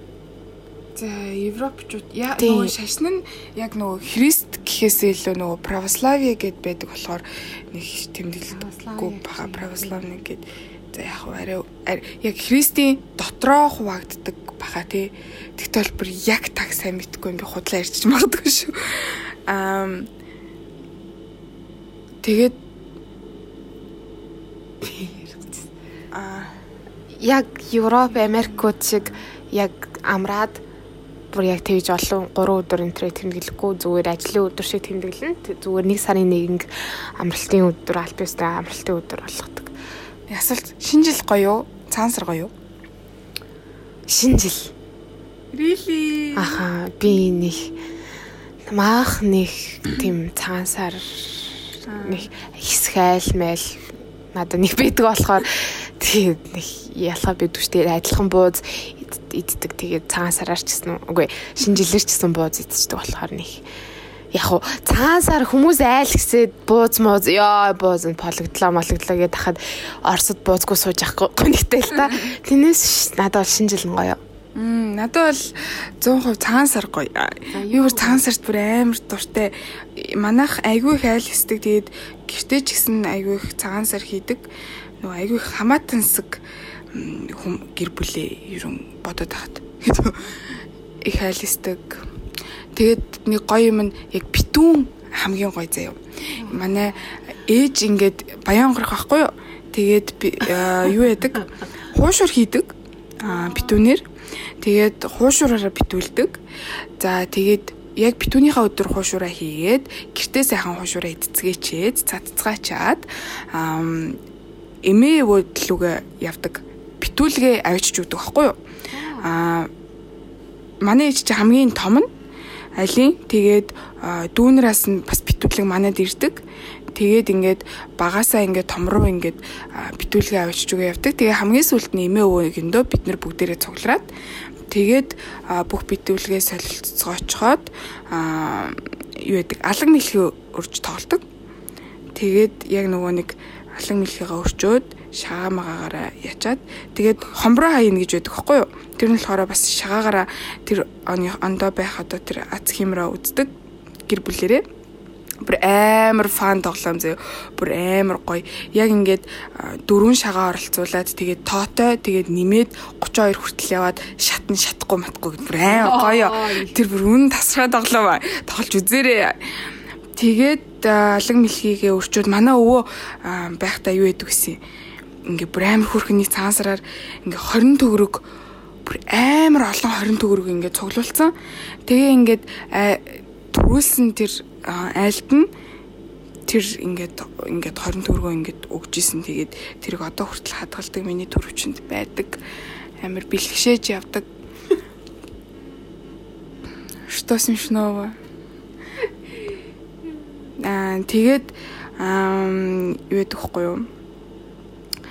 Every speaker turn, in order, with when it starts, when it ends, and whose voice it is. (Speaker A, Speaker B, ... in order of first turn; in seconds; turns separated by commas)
Speaker A: 0.9-20.1, Speaker B: 2.4-2.7, Speaker B: 8.5-10.0, Speaker A: 22.2-22.6, Speaker B: 24.8-25.7, Speaker A: 26.1-26.5, Speaker B: 27.2-30.6, Speaker A: 28.3-28.8, Speaker B: 31.3-39.7, Speaker A: 40.3-42.5, Speaker B: 44.1-44.7, Speaker A: 45.5-46.6, Speaker B: 46.4-47.8, Speaker B: 48.7-63.6, Speaker A: 51.9-52.3, Speaker B: 64.3-74.2, Speaker A: 74.6-84.4, Speaker B: 77.5-78.2, Speaker A: 85.0-90.3, Speaker A: 91.0-92.0, Speaker A: 92.8-104.1, Speaker B: 103.3-103.8, Speaker A: 104.6-106.4, Speaker A: 107.0-114.2, Speaker A: 114.8-118.6, Speaker B: 118.9-119.3, Speaker A: 119.2-119.7, Speaker A: 120.8-122.1, Speaker A: 122.8-126.4, Speaker A: 127.0-134.1, Speaker A: 134.7-141.2, Speaker A: 142.2-153.5, Speaker A: 154.1-154.6, Speaker A: 155.4-169.4, Speaker B: 165.7-166.8, Speaker A: 170.2-174.6, Speaker A: 175.2-178.3, Speaker A: 178.8-181.3, Speaker A: 181.8-185.5, Speaker A: 186.5-192.4, Speaker A: 193.0-194.3, Speaker A: 197.1-198.2, Speaker A: 200.6-203.9